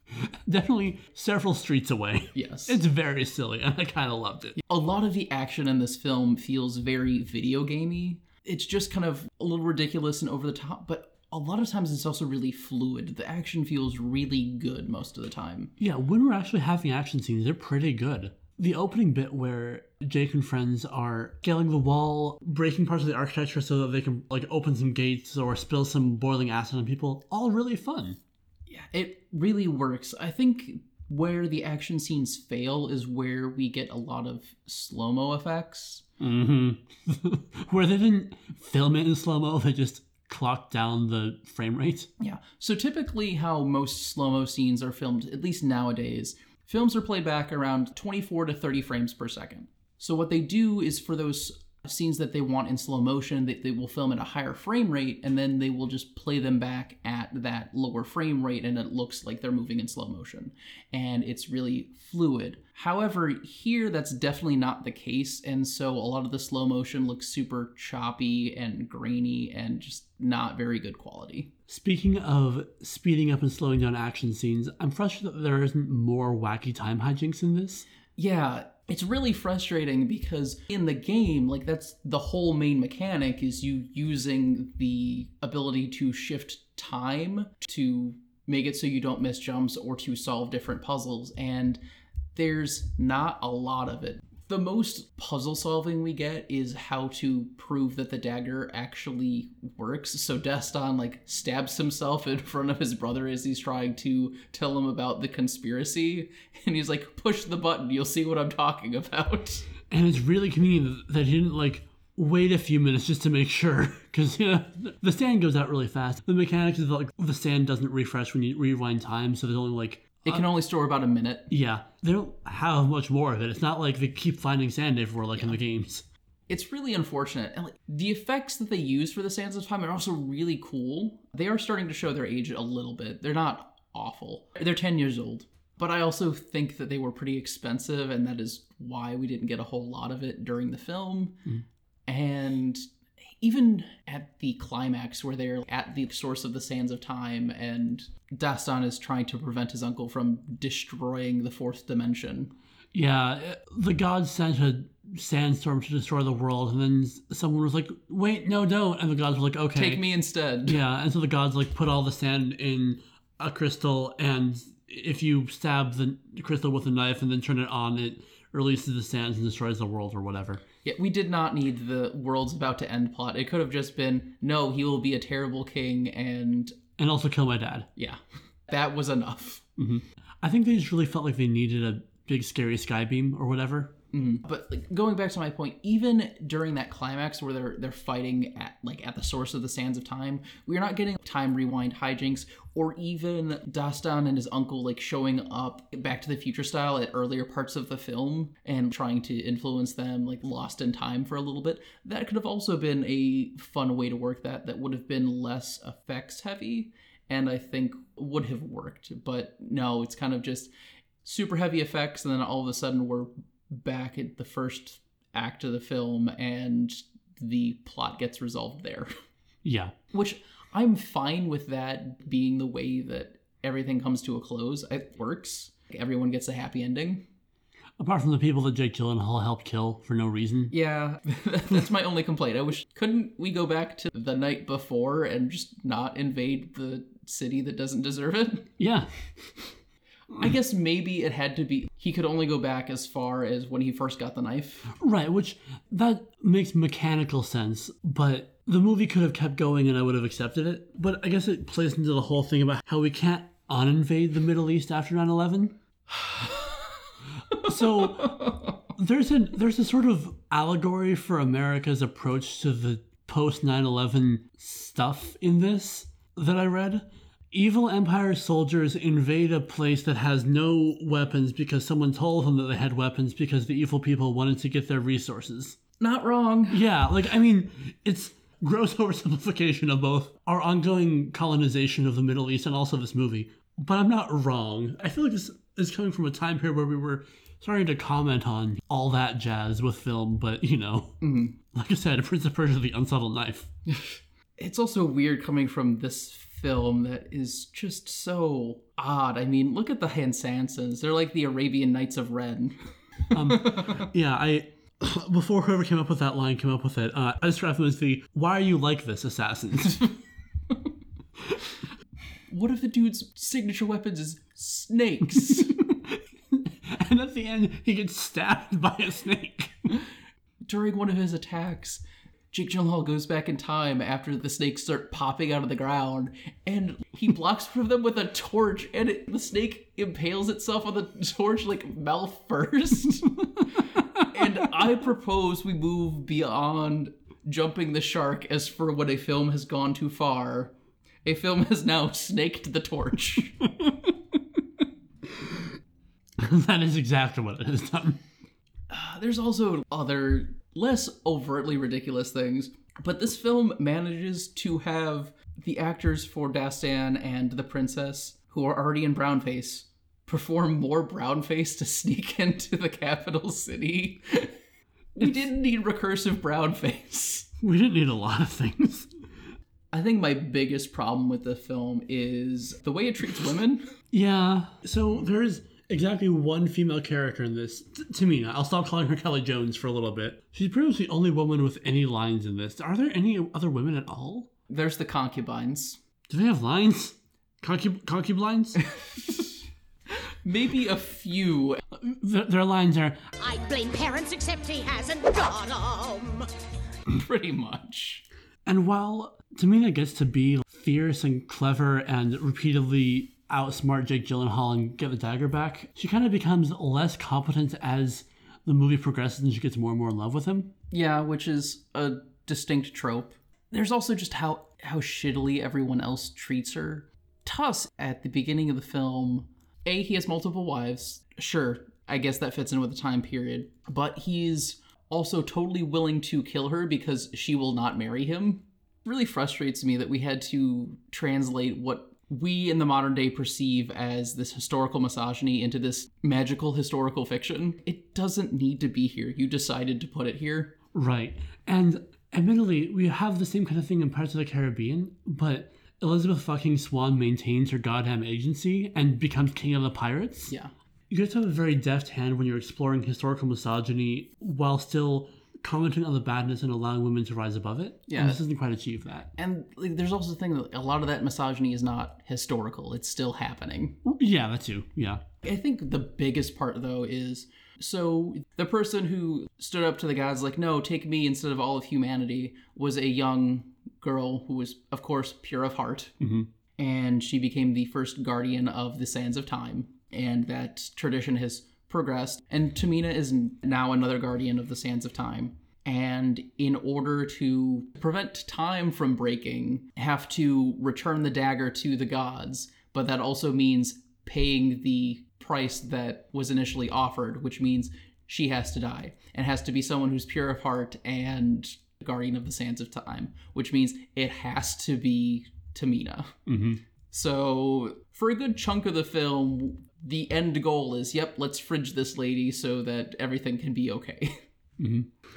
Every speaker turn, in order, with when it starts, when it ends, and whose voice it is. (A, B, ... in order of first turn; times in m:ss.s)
0:00.2-0:04.6 A
0:02.3-0:02.8 B
0:04.6-0:15.7 B
0:15.8-0:28.2 A
0:28.7-0:36.0 B
0:36.2-0:42.1 A
0:42.2-1:11.5 B
1:11.7-1:17.8 A
1:18.2-1:31.8 B
1:32.3-1:49.7 B
1:49.9-2:00.4 A
2:00.2-2:01.5 B
2:01.5-2:06.0 A
2:06.5-2:21.4 B
2:22.1-2:22.8 B
2:23.4-2:32.5 B
2:32.9-2:40.0 A
2:39.7-2:40.8 B
2:40.7-2:50.6 A
2:50.8-2:56.8 B
2:57.0-2:57.9 A
2:58.0-2:59.6 B
2:59.8-3:03.9 A
3:04.1-3:30.7 B
3:31.2-3:39.1 B
3:39.6-3:39.9 A
3:40.1-3:47.2 B
3:48.0-3:50.7 A
3:50.7-3:58.7 B
3:58.8-3:59.7 A
4:00.4-4:04.9 B
4:05.0-4:15.8 A
4:17.5-4:35.8 A
4:36.0-4:36.8 B
4:36.7-4:51.2 A
4:51.2-4:51.6 B
4:51.7-4:53.7 A
4:53.9-5:02.9 B
5:03.3-5:10.1 A
5:03.5-5:04.0 B
5:12.5-5:15.7 B
5:15.4-5:19.9 A
5:20.6-5:40.7 B
5:41.2-5:43.5 B
5:43.8-5:44.1 A
5:46.4-5:48.2 A
5:48.9-6:04.5 B
6:05.2-6:07.5 B
6:07.6-6:09.1 A
6:09.9-6:13.9 B
6:14.1-6:24.5 A
6:24.7-6:26.0 B
6:26.3-6:28.8 A
6:28.9-6:29.5 B
6:30.4-6:31.8 B
6:32.0-6:33.2 A
6:33.4-6:36.4 C
6:37.1-6:38.2 B
6:38.6-6:50.7 A
6:50.9-7:20.7 B
7:20.9-7:30.5 A
7:31.1-7:39.3 A
7:38.1-7:38.4 B
7:39.4-7:44.0 B
7:44.0-7:45.2 A
7:45.4-7:56.1 B
7:56.2-7:56.5 A
7:56.8-8:26.4 B
8:26.5-8:26.8 A
8:27.1-8:34.4 B
8:34.8-8:35.1 A